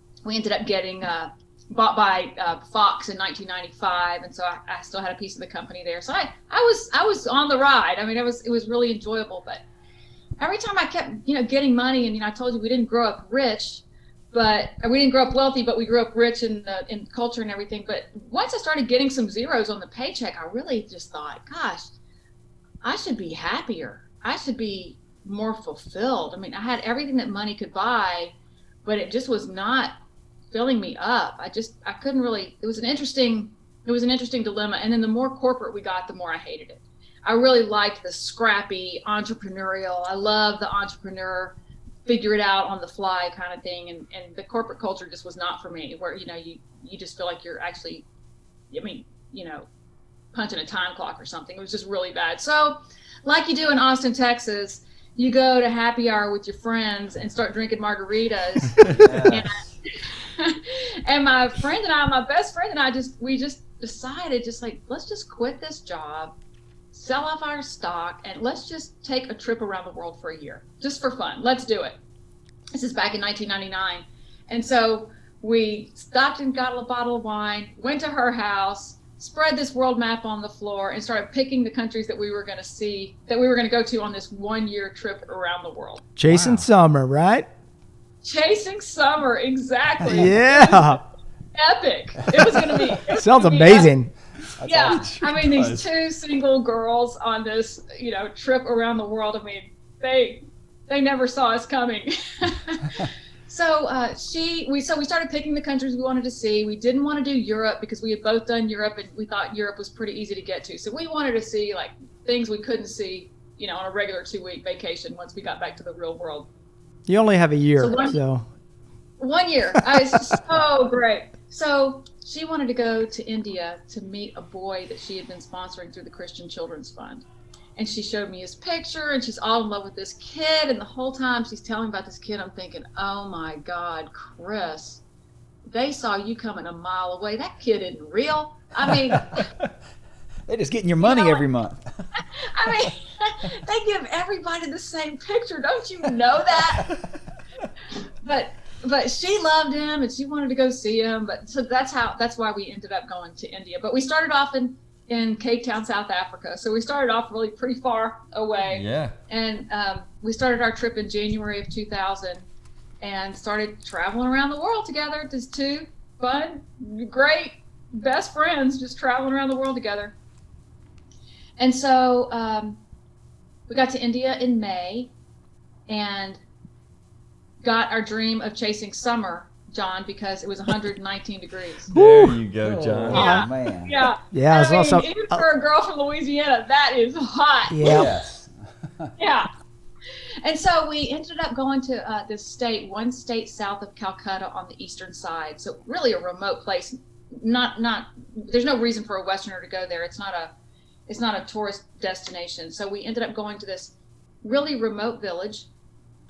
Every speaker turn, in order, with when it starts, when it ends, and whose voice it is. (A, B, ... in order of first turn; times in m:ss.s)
0:00.2-0:09.6 A
0:10.4-0:21.9 A
0:22.8-0:28.3 A
0:28.8-0:30.0 A
0:30.5-0:41.6 A
0:42.1-0:48.0 A
0:48.7-0:49.7 A
0:50.3-1:06.3 A
0:59.0-0:59.5 B
1:06.9-1:12.0 A
1:12.7-1:26.0 A
1:26.2-1:27.5 C
1:26.3-1:26.7 D
1:28.2-1:33.9 A
1:30.1-1:31.0 C
1:33.2-1:34.1 C
1:34.6-1:35.1 B
1:34.6-1:56.5 A
1:34.9-1:35.8 D
1:57.1-1:58.5 C
1:57.8-1:58.2 A
1:59.2-2:07.2 A
2:07.8-2:15.0 A
2:15.7-2:19.5 A
2:20.5-2:21.8 B
2:21.0-2:21.4 A
2:22.2-2:27.0 A
2:28.2-2:42.4 A
2:38.6-2:39.1 D
2:43.0-2:50.1 A
2:51.6-2:52.8 A
2:53.7-2:55.1 A
2:55.9-2:56.4 A
2:57.6-3:01.9 A
3:01.9-3:02.4 C
3:01.9-3:03.4 D
3:02.6-3:04.0 B
3:03.1-3:08.0 A
3:03.1-3:03.5 C
3:04.3-3:05.4 C
3:07.7-3:08.1 C
3:07.8-3:09.1 B
3:09.2-3:09.5 A
3:10.4-3:20.5 A
3:21.1-3:25.7 A